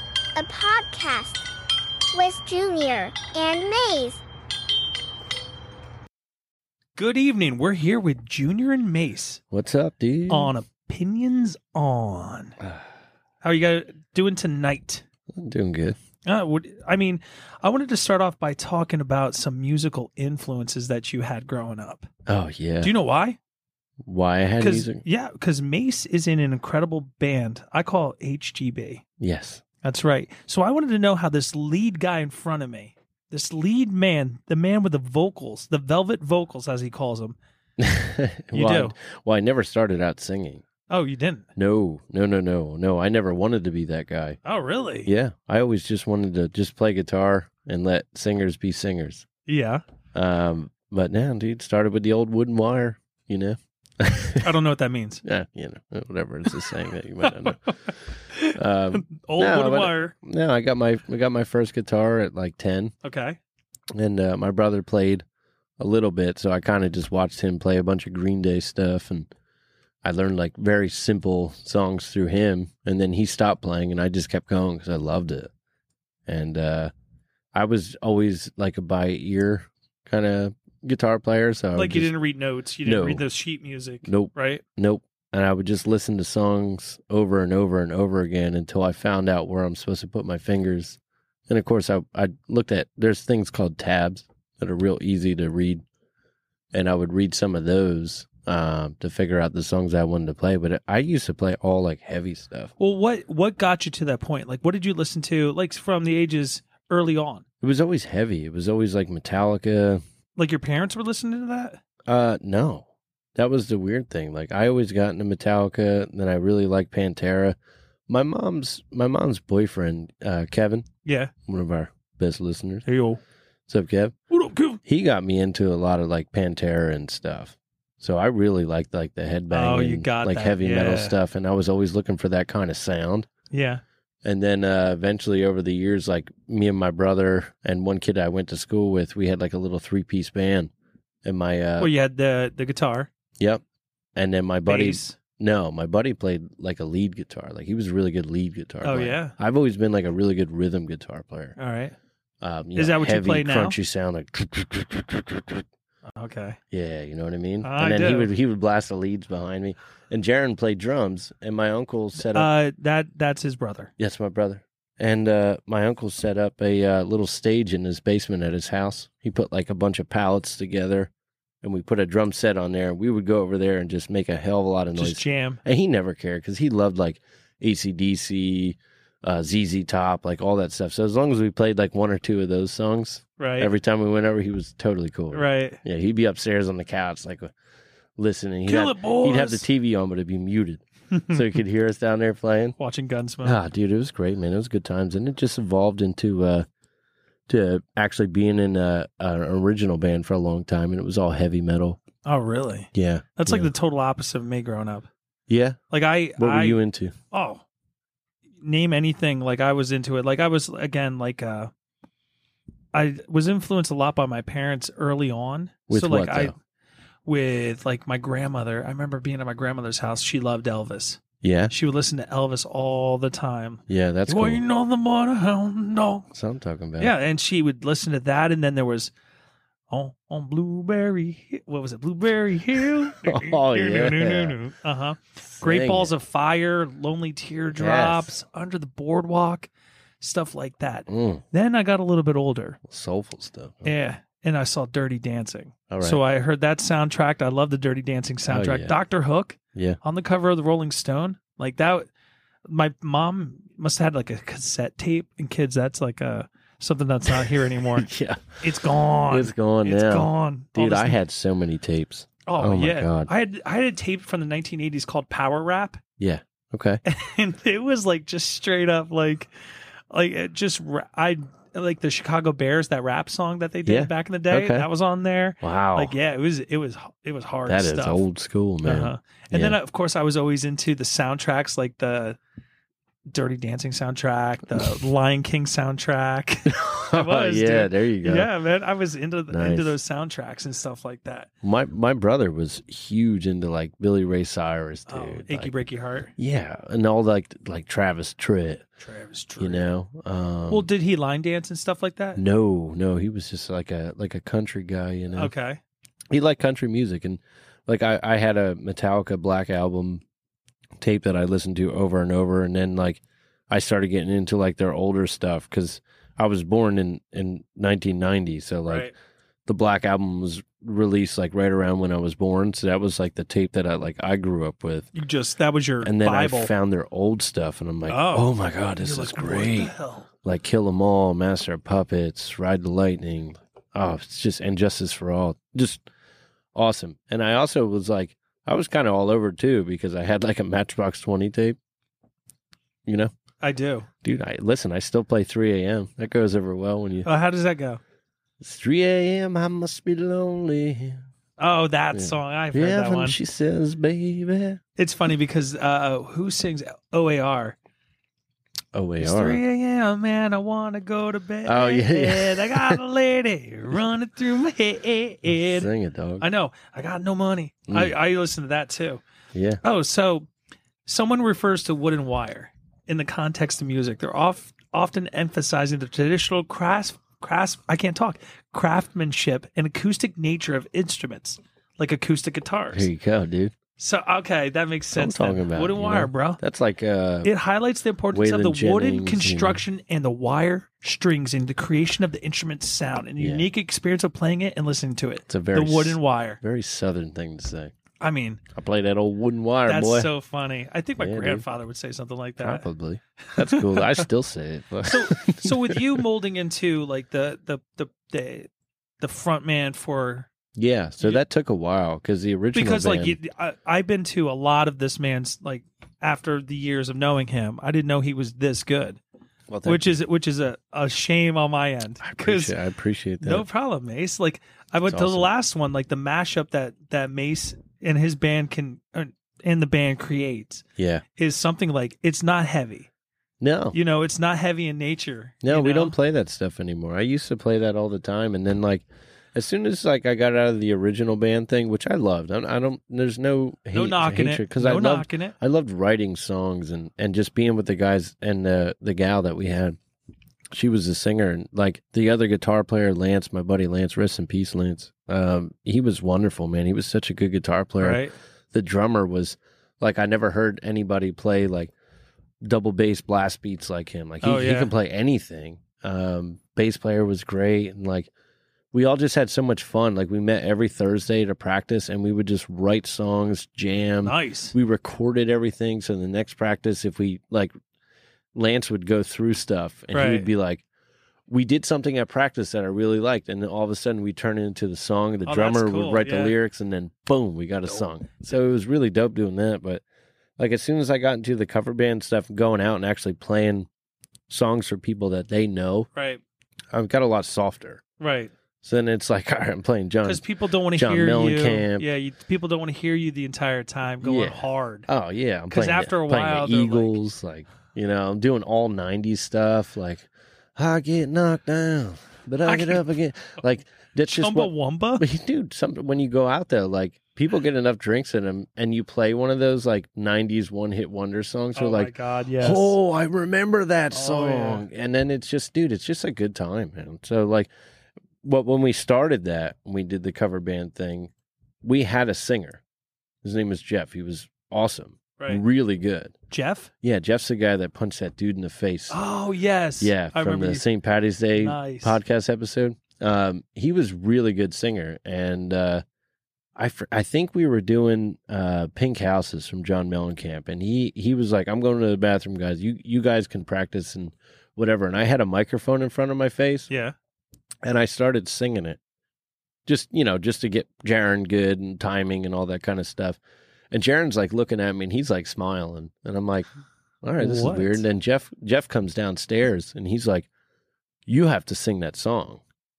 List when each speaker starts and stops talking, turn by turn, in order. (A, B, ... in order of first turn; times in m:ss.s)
0:00.4-0:01.5 A
0:02.1-0:04.2 A
0:07.0-0:09.4 B
0:09.5-0:10.5 C
0:10.3-0:12.6 B
0:13.4-0:15.0 B
0:15.3-0:16.0 C
0:16.2-0:22.1 B
0:22.3-0:22.9 C
0:22.8-0:23.4 B
0:24.0-0:25.0 C
0:24.6-0:29.0 B
0:29.2-0:29.6 C
0:29.8-0:37.4 B
0:37.8-0:40.6 C
0:38.5-0:38.9 B
0:40.9-0:41.5 B
0:41.6-0:44.4 C
0:44.4-0:45.1 B
0:45.0-0:49.3 C
0:49.5-0:49.8 B
0:50.1-0:54.5 C
0:54.4-0:55.2 B
0:55.2-0:57.6 C
0:57.2-1:00.1 B
0:58.5-1:02.9 C
1:03.0-1:03.4 B
1:04.0-1:05.2 C
1:05.8-1:09.3 C
1:10.0-1:15.5 C
1:16.3-1:16.9 C
1:17.5-1:22.1 C
1:21.8-1:24.6 B
1:22.8-1:23.2 C
1:24.0-1:35.8 C
1:36.7-1:42.7 C
1:42.8-1:47.4 B
1:47.6-1:50.0 C
1:50.4-1:51.8 B
1:52.1-1:57.6 C
1:58.1-2:00.9 C
2:01.0-2:01.3 B
2:01.5-2:02.8 C
2:02.9-2:03.2 B
2:03.7-2:04.1 C
2:04.3-2:04.8 B
2:04.8-2:13.3 C
2:09.5-2:11.2 B
2:13.5-2:13.8 B
2:14.2-2:20.7 C
2:21.2-2:21.9 C
2:21.8-2:23.1 B
2:24.2-2:31.6 C
2:24.7-2:25.2 B
2:28.8-2:29.3 B
2:31.6-2:32.0 B
2:32.4-2:35.6 C
2:32.8-2:33.8 B
2:36.2-2:36.6 B
2:36.7-2:42.5 C
2:37.6-2:38.3 B
2:42.2-2:43.9 B
2:44.0-2:51.1 C
2:51.6-3:07.5 C
2:55.0-2:55.6 B
3:03.4-3:03.7 B
3:05.3-3:05.8 B
3:08.2-3:12.8 C
3:08.7-3:09.7 B
3:11.1-3:11.4 B
3:12.8-3:13.6 B
3:13.4-3:16.7 C
3:17.5-3:22.0 C
3:22.2-3:25.1 B
3:22.9-3:23.7 C
3:25.5-3:25.8 C
3:25.9-3:26.8 B
3:26.4-3:27.1 C
3:27.3-3:27.6 B
3:28.6-3:31.7 B
3:32.9-3:36.6 B
3:35.9-3:36.5 C
3:37.3-3:46.3 B
3:41.4-3:41.7 C
3:43.9-3:44.6 C
3:46.3-3:47.1 C
3:47.0-3:49.1 B
3:49.9-4:02.8 B
3:53.1-3:54.6 C
3:55.5-3:56.1 C
3:57.7-3:58.3 C
4:01.1-4:01.4 C
4:02.8-4:03.9 C
4:03.8-4:12.1 B
4:05.9-4:06.2 C
4:08.5-4:08.9 C
4:09.7-4:10.0 C
4:12.7-4:21.2 B
4:17.3-4:18.6 C
4:19.3-4:23.3 C
4:22.5-4:26.0 B
4:26.2-4:27.0 C
4:27.1-4:29.5 B
4:30.1-4:38.2 B
4:33.9-4:34.9 C
4:35.6-4:36.2 C
4:37.7-4:39.8 C
4:38.8-4:42.4 B
4:43.3-4:51.5 B
4:46.7-4:48.5 C
4:49.5-4:50.0 C
4:51.6-4:55.7 C
4:55.1-4:56.3 B
4:56.4-4:58.9 C
4:59.0-4:59.9 B
4:59.6-5:00.9 C
5:00.7-5:02.4 B
5:02.4-5:05.5 C
5:05.3-5:05.8 B
5:06.3-5:10.2 C
5:11.0-5:19.1 C
5:18.9-5:19.1 B
5:19.7-5:25.1 C
5:25.1-5:26.7 B
5:26.0-5:36.1 C
5:28.1-5:28.5 B
5:29.0-5:30.3 B
5:36.8-5:41.8 C
5:43.1-5:43.3 C
5:43.6-5:44.1 B
5:44.2-5:47.3 C
5:47.2-5:48.0 B
5:48.6-5:51.2 C
5:51.6-5:53.4 B
5:52.1-5:54.8 C
5:55.0-5:57.8 B
5:58.9-5:59.6 C
5:59.2-6:09.2 B
6:01.7-6:03.0 C
6:05.5-6:06.5 C
6:07.9-6:08.1 C
6:09.5-6:09.8 C
6:09.8-6:10.5 B
6:11.0-6:23.1 B
6:22.9-6:23.7 C
6:24.0-6:26.6 B
6:25.1-6:27.5 C
6:27.4-6:36.6 B
6:28.3-6:29.8 C
6:33.4-6:33.7 C
6:35.5-6:37.9 C
6:38.2-6:38.6 B
6:38.7-6:40.3 C
6:39.9-6:42.8 B
6:41.2-6:41.6 C
6:42.6-6:46.2 C
6:43.5-6:44.2 B
6:45.0-6:48.7 B
6:49.2-6:50.5 B
6:50.8-6:53.4 C
6:52.7-6:59.2 B
6:59.7-7:00.2 C
6:59.8-7:02.8 B
7:02.2-7:03.7 C
7:03.4-7:10.8 B
7:05.1-7:05.5 C
7:11.0-7:11.2 C
7:11.4-7:13.1 B
7:13.6-7:14.0 C
7:13.9-7:16.2 B
7:15.6-7:30.0 C
7:23.9-7:25.6 B
7:30.7-7:41.9 C
7:38.0-7:38.4 B
7:42.6-7:48.3 C
7:44.4-7:44.9 B
7:48.9-7:57.7 C
7:54.2-7:54.8 B
7:58.5-8:00.8 C
8:00.1-8:00.5 B
8:01.5-8:10.0 C
8:05.5-8:06.6 B
8:10.6-8:13.9 C
8:14.5-8:16.1 C
8:16.2-8:16.4 B
8:16.9-8:18.0 C
8:18.2-8:18.5 B
8:18.8-8:22.1 C
8:20.2-8:25.1 B
8:24.2-8:47.7 C
8:25.7-8:27.2 B
8:32.6-8:33.0 B
8:34.3-8:35.2 B
8:41.8-8:43.0 B
8:44.1-8:44.8 B
8:48.4-8:51.3 C
8:51.8-8:52.8 C
8:53.4-8:56.4 C
8:56.5-8:56.9 B
8:57.0-8:59.2 C
8:59.1-9:00.8 B
9:00.0-9:06.0 C
9:01.6-9:02.2 B
9:06.8-9:16.9 C
9:17.8-9:19.0 C
9:19.9-9:23.4 C
9:23.9-9:26.7 C
9:27.2-9:30.5 C
9:27.4-9:28.0 B
9:31.3-9:32.6 C